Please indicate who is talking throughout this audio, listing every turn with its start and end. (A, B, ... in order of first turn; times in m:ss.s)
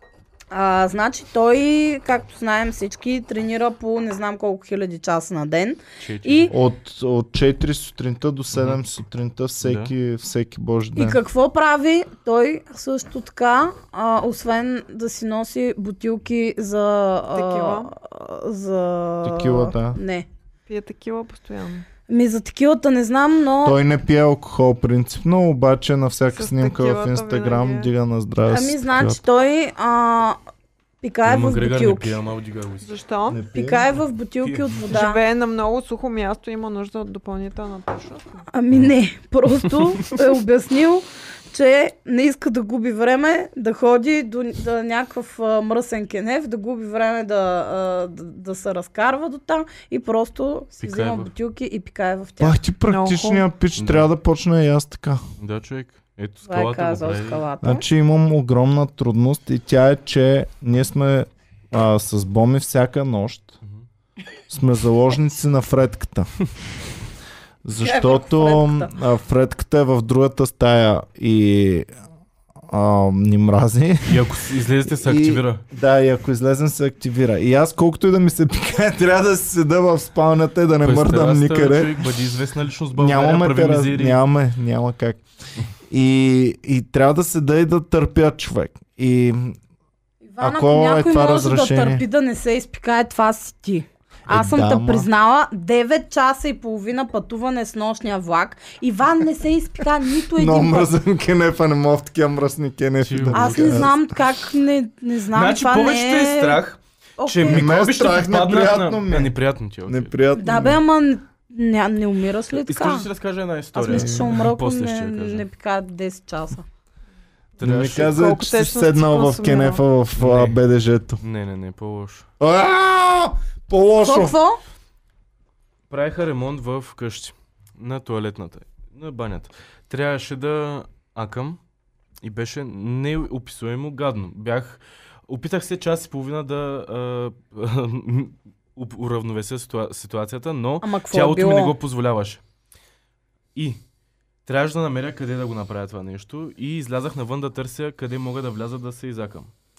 0:00.5-0:06.5 A
0:06.0-0:06.5 B
0:06.5-0:11.2 C
0:08.5-0:08.8 B
0:09.6-0:09.9 B
0:11.0-0:20.3 A
0:17.3-0:17.9 D
0:19.2-0:20.0 C
0:20.7-0:21.9 D
0:22.1-0:23.8 A
0:23.6-0:29.2 C
0:26.4-0:27.9 D
0:28.5-0:30.4 A
0:31.0-0:32.2 A
0:31.3-0:32.9 B
0:32.8-0:33.4 D
0:33.3-0:33.9 C
0:33.5-0:35.2 A
0:34.4-0:34.7 B
0:34.9-0:38.4 D
0:38.5-0:52.6 A
0:50.8-0:51.3 B
0:52.4-0:55.2 C
0:52.9-0:53.4 D
0:53.8-0:54.1 B
0:55.4-0:57.4 B
0:56.4-0:57.8 A
0:57.6-1:03.6 C
1:04.5-1:06.3 C
1:07.6-1:11.9 C
1:07.8-1:08.9 A
1:12.7-1:14.3 C
1:14.1-1:15.6 B
1:14.9-1:22.2 C
1:20.8-1:24.2 B
1:22.9-1:25.2 C
1:25.9-1:29.6 C
1:30.3-1:41.0 A
1:30.4-1:32.0 C
1:34.3-1:35.1 C
1:40.4-1:43.9 C
1:43.0-1:43.9 B
1:43.3-1:46.6 A
1:45.3-1:50.1 B
1:47.2-1:47.7 A
1:47.4-1:49.4 C
1:49.9-1:50.8 C
1:50.4-1:53.1 A
1:52.7-1:55.4 B
1:53.7-1:56.6 A
1:53.9-1:54.4 C
1:57.6-1:58.2 B
1:57.6-2:01.2 C
1:57.7-1:59.8 D
2:00.2-2:00.6 B
2:01.2-2:02.3 B
2:02.4-2:04.4 C
2:04.0-2:04.6 A
2:05.9-2:11.6 B
2:12.2-2:22.4 B
2:20.8-2:21.7 A
2:24.4-2:29.5 B